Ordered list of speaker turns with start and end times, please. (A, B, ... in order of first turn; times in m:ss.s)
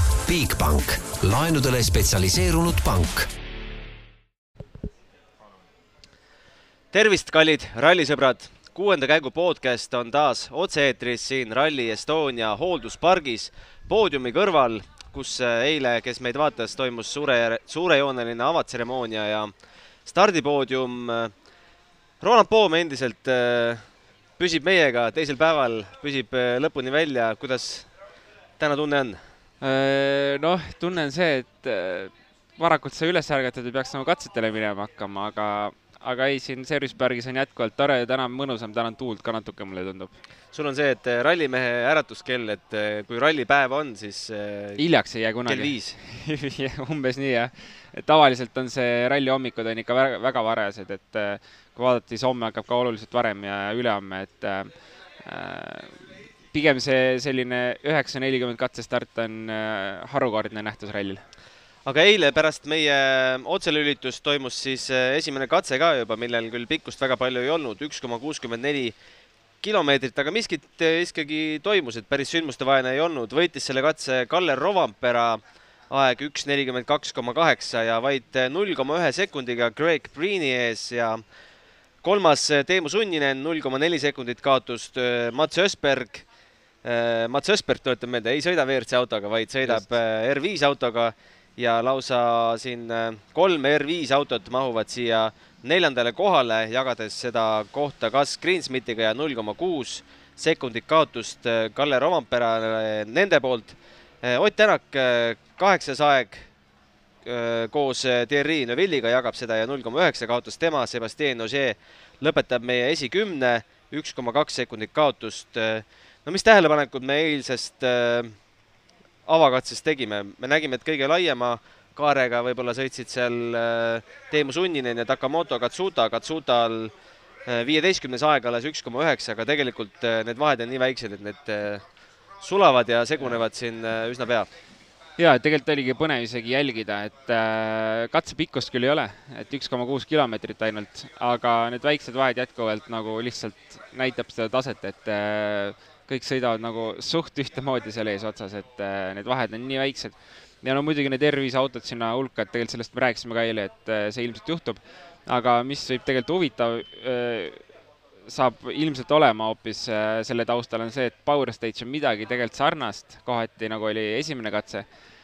0:00.2-0:03.3 A
0:06.9-0:19.5 B
0:20.0-0:21.3 B
0:22.2-0:23.8 B
0:24.4-0:27.9 B
0:28.6-0:29.2 B
0:29.6-0:40.1 C
0:40.5-0:44.8 B
0:44.8-0:54.7 C
0:45.4-0:46.0 B
0:55.2-0:55.9 C
0:56.5-1:01.2 C
1:01.8-1:08.9 B
1:09.6-1:21.2 B
1:22.0-1:26.2 B
1:26.8-1:46.4 B
1:29.6-1:29.9 C
1:47.2-1:58.3 B
1:59.3-2:06.9 B
2:07.4-2:11.8 B
2:12.4-2:14.5 B
2:15.2-2:37.6 C
2:38.3-2:44.9 C